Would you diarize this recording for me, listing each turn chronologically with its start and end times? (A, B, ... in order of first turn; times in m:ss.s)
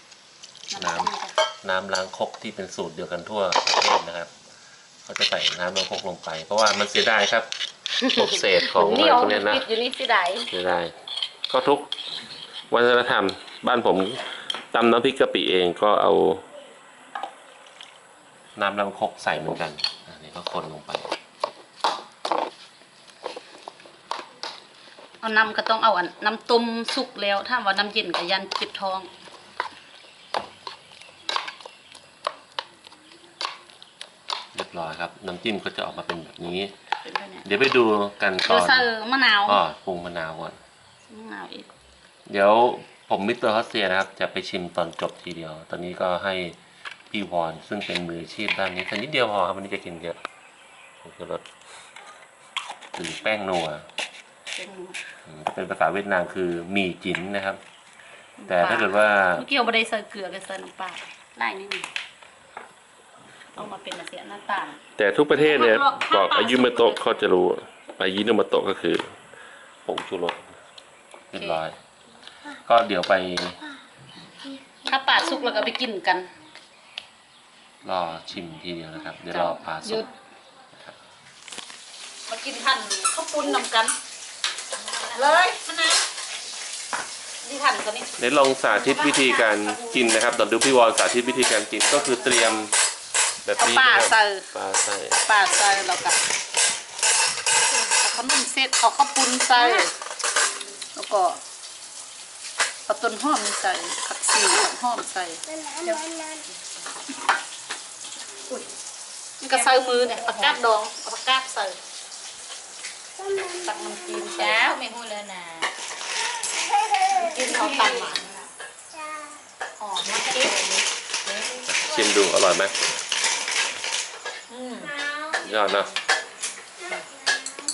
0:00.7-0:01.4 A
0:00.8-0:01.1 B
0:01.6-0:04.3 B
0:05.0-0:07.5 B
0:08.0-0:10.5 A
0:08.2-0:09.6 B
0:10.5-0:10.9 B
0:11.5-0:11.9 B
0:12.7-0:16.4 B
0:18.6-0:21.2 B
0:25.2-0:29.1 A
0:34.5-0:36.8 B
0:37.0-0:37.5 A
0:37.4-0:38.9 B
0:38.4-0:39.6 A
0:39.5-0:40.6 B
0:41.1-0:41.7 A
0:42.3-0:46.6 B
0:47.1-0:50.2 B
0:51.0-0:51.4 B
0:53.0-0:53.8 B
0:54.6-0:55.0 A
0:55.3-0:57.6 B
0:58.4-1:01.9 A
0:58.5-0:59.5 B
1:03.6-1:04.8 A
1:05.0-1:09.2 B
1:05.3-1:07.3 A
1:09.8-1:10.5 B
1:11.3-1:11.8 B
1:11.3-1:11.6 A
1:12.6-1:13.6 B
1:14.8-1:16.3 A
1:17.8-1:20.1 B
1:19.3-1:20.1 A
1:22.3-1:24.0 A
1:24.9-1:25.2 C
1:25.1-1:26.0 A
1:27.4-1:28.2 A
1:28.2-1:32.8 B
1:29.0-1:30.0 A
1:33.4-1:35.2 B
1:33.6-1:34.5 A
1:35.2-1:36.2 A
1:37.8-1:39.9 A
1:41.0-1:41.4 A
1:42.9-1:46.0 A
1:49.4-1:51.8 A
1:50.2-1:50.5 C
1:53.6-1:54.8 A
1:54.4-1:55.7 C
1:57.1-1:58.4 A
1:57.3-1:58.2 C
1:59.8-2:00.8 A
2:00.1-2:00.8 C
2:01.7-2:02.9 B
2:04.5-2:05.0 A
2:05.3-2:05.9 B